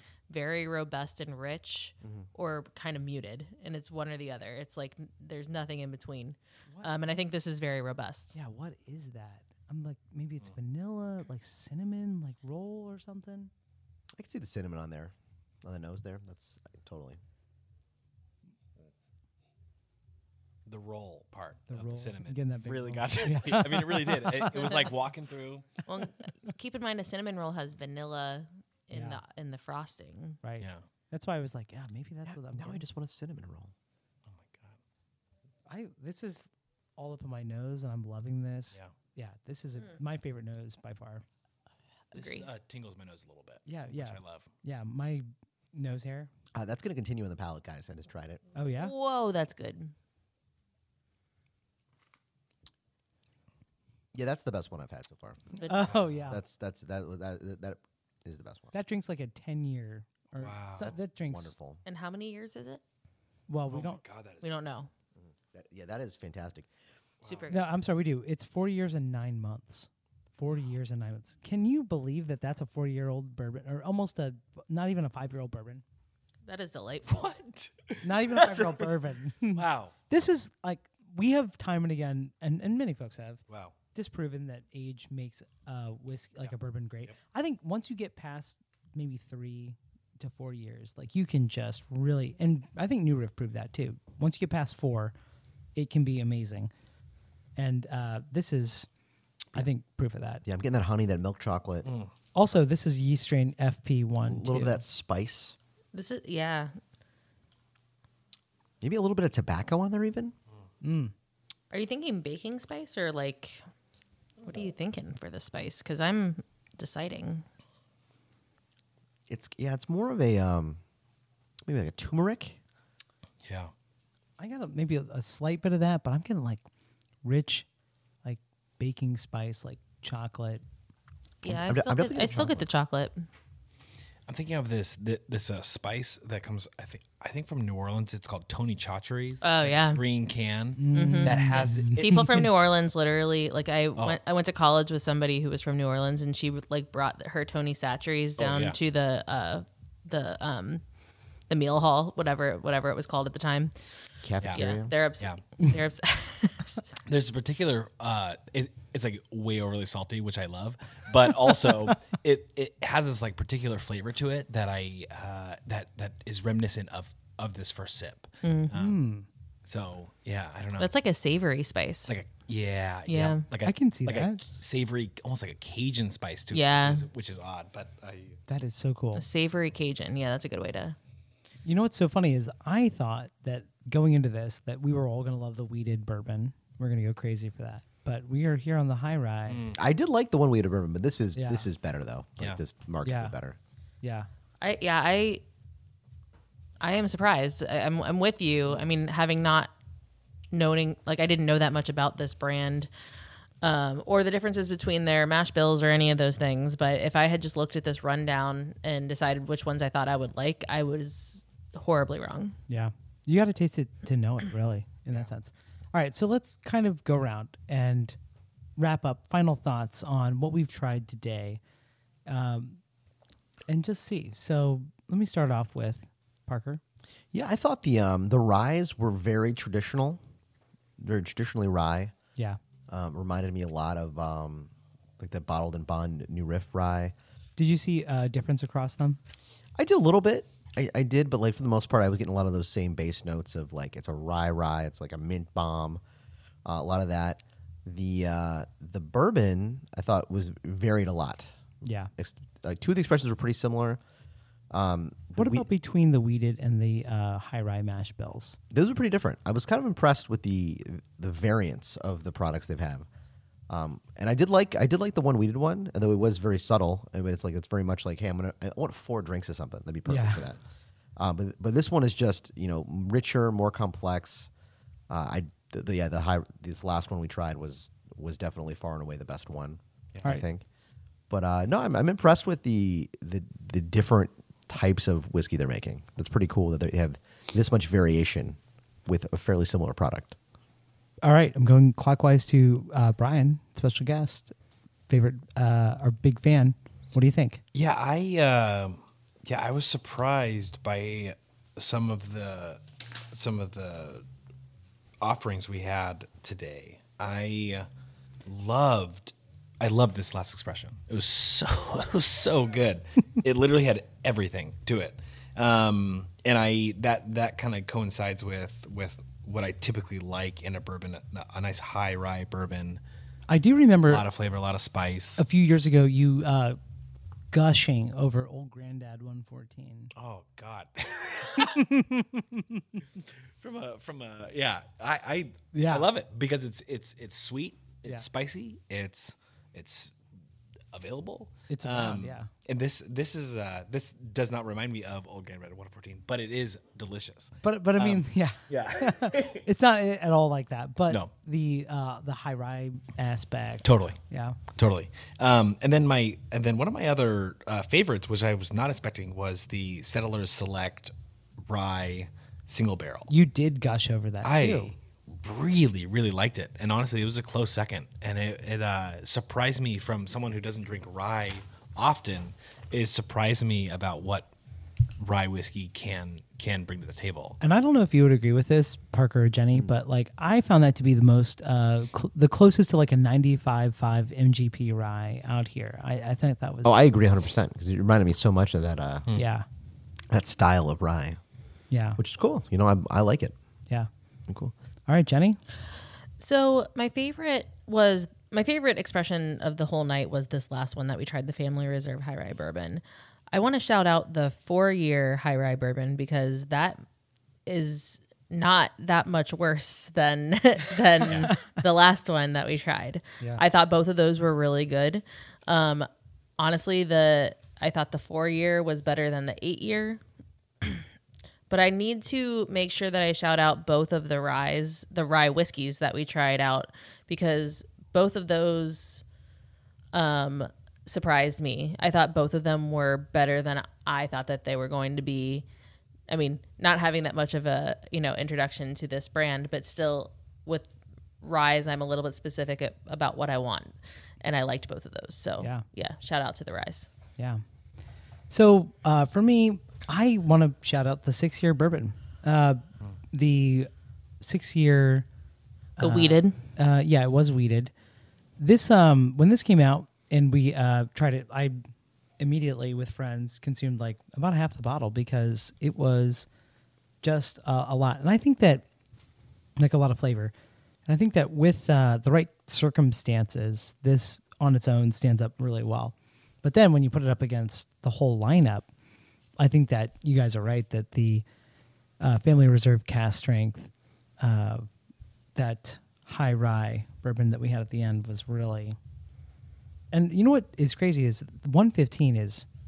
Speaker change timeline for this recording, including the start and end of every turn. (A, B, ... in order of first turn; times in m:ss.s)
0:00.3-0:08.3 A
0:08.3-0:13.5 B
0:14.1-0:17.2 C
0:20.6-0:25.7 D
0:21.7-0:24.9 B
0:24.5-0:24.8 A
0:25.8-0:30.4 A
0:28.9-0:29.2 B
0:30.4-0:32.8 B
0:30.6-0:30.8 D
0:32.3-0:33.7 C
0:34.2-0:34.8 D
0:35.7-0:41.2 B
0:42.1-0:42.5 A
0:42.1-0:44.5 D
0:43.6-0:46.3 B
0:46.5-0:48.4 C
0:48.5-0:48.9 B
0:48.8-0:49.9 A
0:54.1-0:58.7 C
0:55.5-0:56.4 B
0:55.6-0:55.9 A
0:58.7-1:01.5 B
1:00.4-1:01.0 D
1:01.3-1:01.8 C
1:01.8-1:02.8 A
1:03.5-1:04.0 B
1:03.7-1:04.5 D
1:04.4-1:04.9 A
1:05.2-1:06.7 C
1:07.2-1:07.5 D
1:07.2-1:07.7 A
1:07.5-1:15.8 B
1:16.4-1:17.2 A
1:17.0-1:18.9 D
1:18.0-1:23.4 B
1:19.5-1:19.9 D
1:23.5-1:23.7 D
1:23.9-1:35.1 B
1:35.8-1:36.7 B
1:37.6-1:38.9 B
1:39.5-1:40.4 B
1:40.4-1:41.9 C
1:41.8-1:42.1 D
1:42.3-1:44.8 B
1:44.3-1:45.6 C
1:45.9-1:46.8 A
1:48.8-1:50.3 C
1:50.8-1:51.1 B
1:51.7-1:53.6 A
1:54.4-1:57.4 A
1:59.3-2:00.8 C
2:01.6-2:02.6 C
2:03.4-2:03.7 D
2:04.4-2:06.6 B
2:07.2-2:07.7 B
2:08.2-2:10.6 B
2:11.4-2:13.2 A
2:11.4-2:12.6 C
2:14.3-2:22.3 D
2:19.4-2:20.0 A
2:20.8-2:22.5 B
2:20.9-2:30.8 A
2:28.4-2:28.8 D
2:31.5-2:33.7 A
2:34.2-2:34.9 C
2:34.4-2:34.7 D
2:34.4-2:36.9 A
2:37.0-2:49.0 D
2:48.4-2:48.7 A
2:48.7-2:49.3 B
2:49.6-2:50.9 D
2:50.8-2:52.2 A
2:52.1-2:58.4 D
2:53.1-2:53.4 A
2:53.6-2:54.4 B
2:56.5-2:57.1 A
2:58.5-2:59.2 B
2:59.1-3:01.0 A
3:01.6-3:09.6 B
3:09.5-3:09.8 D
3:09.7-3:13.6 C
3:11.4-3:11.7 B
3:13.0-3:13.3 B
3:14.0-3:14.3 B
3:14.6-3:15.4 A
3:16.8-3:19.7 A
3:20.5-3:22.9 A
3:23.6-3:32.6 A
3:32.7-3:38.2 B
3:38.8-3:41.6 B
3:42.3-3:42.8 B
3:43.7-3:46.8 B
3:47.3-3:50.2 C
3:51.0-3:52.1 C
3:52.9-3:57.1 C
3:57.6-3:59.2 B
3:59.8-4:06.0 C
4:06.6-4:11.5 C
4:11.8-4:12.1 B
4:12.2-4:14.0 C
4:14.7-4:15.6 C
4:15.4-4:18.6 B
4:18.7-4:23.1 C
4:23.7-4:30.6 C
4:30.1-4:30.5 B
4:31.2-4:34.5 C
4:35.1-4:40.6 C
4:40.1-4:40.4 D
4:41.3-4:50.4 C
4:51.2-4:54.5 B
4:55.1-4:57.6 B
4:57.7-5:04.2 D
5:05.2-5:07.9 D
5:08.4-5:23.0 D
5:23.5-5:24.2 B
5:24.0-5:25.4 D
5:25.4-5:26.8 B
5:27.5-5:30.1 B
5:30.1-5:31.9 D
5:31.6-5:33.0 B
5:33.2-5:40.2 D
5:35.7-5:36.1 B
5:40.9-5:49.6 D
5:41.7-5:42.5 B
5:47.6-5:54.6 B
5:53.8-5:54.2 D
5:54.7-6:01.1 D
6:01.6-6:03.3 D
6:03.3-6:04.9 B
6:04.4-6:14.5 D
6:15.2-6:17.6 D
6:17.6-6:27.0 B
6:26.8-6:29.3 C
6:29.3-6:29.6 B
6:30.3-6:31.4 C
6:31.9-6:32.2 B
6:32.2-6:33.5 C
6:35.1-6:35.6 B
6:36.4-6:47.0 A
6:47.6-7:00.2 A
6:51.2-6:51.5 D
6:51.3-6:51.8 B
7:01.7-7:09.2 A
7:10.1-7:15.6 A
7:16.3-7:27.1 A
7:28.5-7:33.9 B
7:34.4-7:35.3 B
7:36.0-7:37.9 B
7:36.0-7:36.6 A
7:38.6-7:41.9 B
7:42.4-7:46.5 B
7:47.2-7:48.8 B
7:49.8-7:50.5 B
7:51.0-7:58.9 B
7:59.6-8:01.4 B
8:02.2-8:04.9 B
8:05.6-8:09.0 B
8:10.1-8:12.6 B